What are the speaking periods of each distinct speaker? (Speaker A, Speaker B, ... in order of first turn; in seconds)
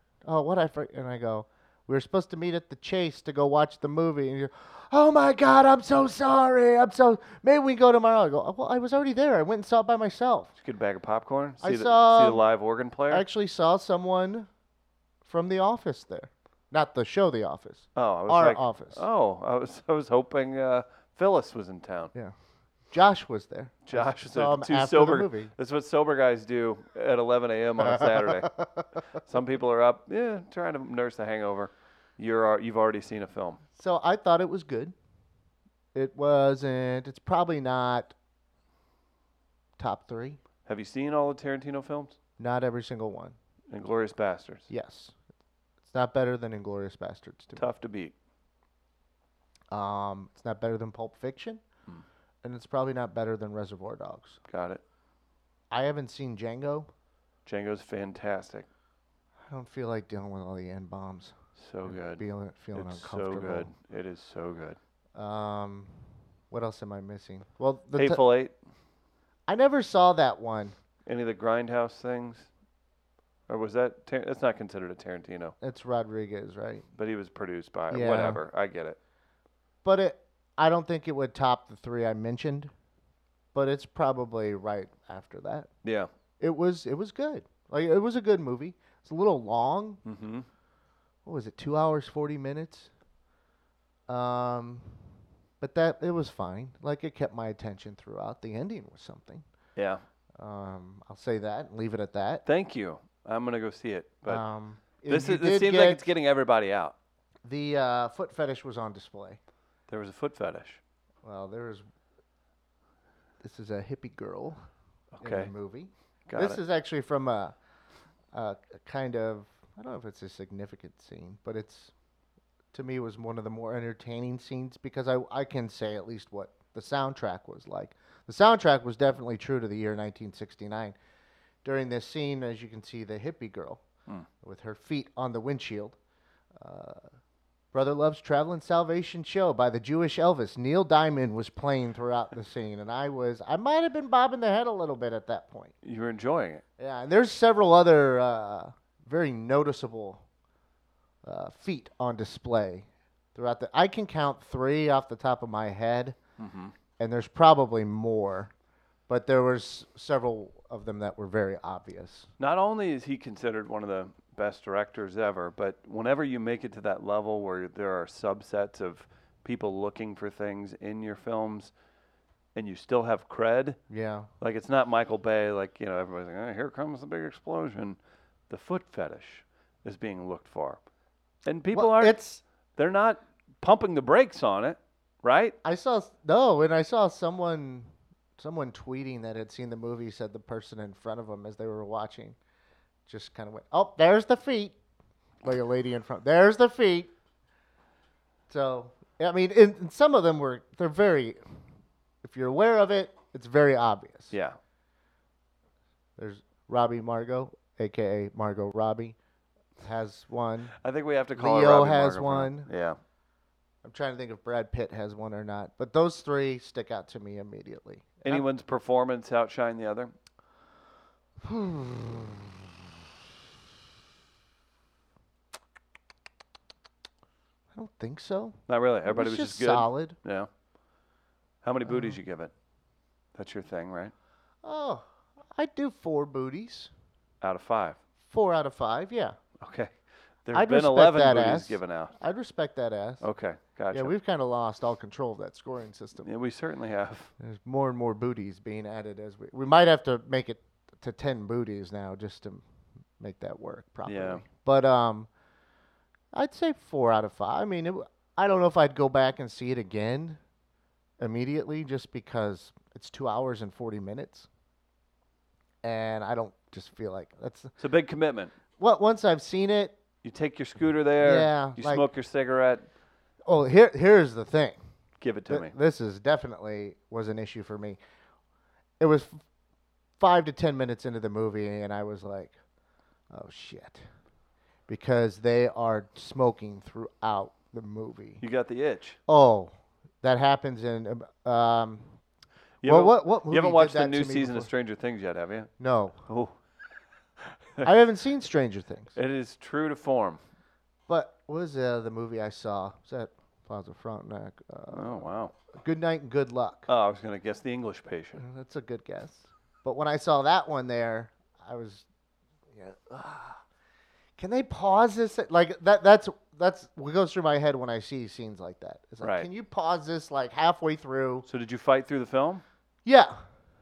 Speaker A: 0.2-10.5, 11.6-12.4, 13.1-14.5, 15.2-19.0, 22.9-25.5, 27.8-29.0, 33.8-35.0, 35.9-38.1, 39.8-40.4, 42.4-43.4, 44.7-45.2, 45.9-47.7, 49.7-51.6, 52.4-54.4, 55.7-56.9, 59.4-63.7, 65.2-66.0, 66.5-68.2, 69.5-70.8, 75.6-76.9, 77.9-78.4, 79.8-82.7, 83.5-85.7, 86.4-90.0, 91.2-92.9, 94.1-95.0, 95.6-99.5, 100.4-102.5, 104.3-106.1, 107.4-109.4, 111.2-111.9, 113.4-114.6, 115.2-117.5, 118.3-121.9, 122.7-130.9, 131.6-133.8, 134.4-136.0, 136.6-137.1, 137.7-145.7, 146.8-150.2, 151.2-156.2, 157.0-158.5, 159.1-162.3, 173.9-174.3, 181.7-182.4, 185.6-192.4, 193.1-194.8, 195.4-197.1, 198.5-201.4, 202.2-204.3, 206.2-209.2, 209.8-210.7, 211.3-212.7, 213.8-218.4, 221.4-222.7, 227.7-230.2, 231.9-232.2, 234.6-236.9, 238.3-239.4, 240.5-243.3, 243.9-246.3, 247.4-252.7, 253.2-255.3, 256.3-260.4, 261.2-264.5, 265.8-267.8, 268.8-270.0, 271.2-272.1, 273.5-274.8, 275.5-278.0, 279.0-279.4, 280.2-282.6, 283.3-284.0, 284.9-288.4, 289.3-292.1, 292.8-294.7, 295.8-296.2, 297.8-299.1, 301.1-306.9, 308.4-312.1, 312.7-313.6, 314.4-321.5, 323.1-323.4
Speaker B: 10.6-13.3, 18.0-22.1, 23.9-28.5, 29.2-33.6, 40.7-42.2, 43.7-44.7, 47.6-48.1, 54.5-54.8, 57.5-58.7, 61.6-64.8, 68.0-68.5, 71.1-72.5, 73.5-75.5, 77.0-79.0, 85.8-86.1, 90.0-90.5, 99.8-100.0, 102.5-104.4, 105.1-107.0, 109.9-110.8, 115.2-115.5, 116.3-116.6, 145.8-146.6, 156.4-156.7, 162.4-171.7, 172.6-173.8, 174.4-178.0, 178.5-180.8, 181.5-182.2, 182.8-185.6, 204.3-204.6, 210.8-213.0, 218.3-220.1, 228.7-230.5, 231.6-232.5, 233.3-234.1, 237.4-238.0, 239.6-239.9, 240.4-242.2, 243.2-244.1, 246.2-247.3, 254.1-254.4, 267.8-268.5, 270.2-272.9, 275.2-275.7, 288.4-289.2, 292.8-295.7, 296.3-296.5, 299.1-300.4, 304.9-305.5, 306.9-308.4, 319.2-319.5, 321.5-322.6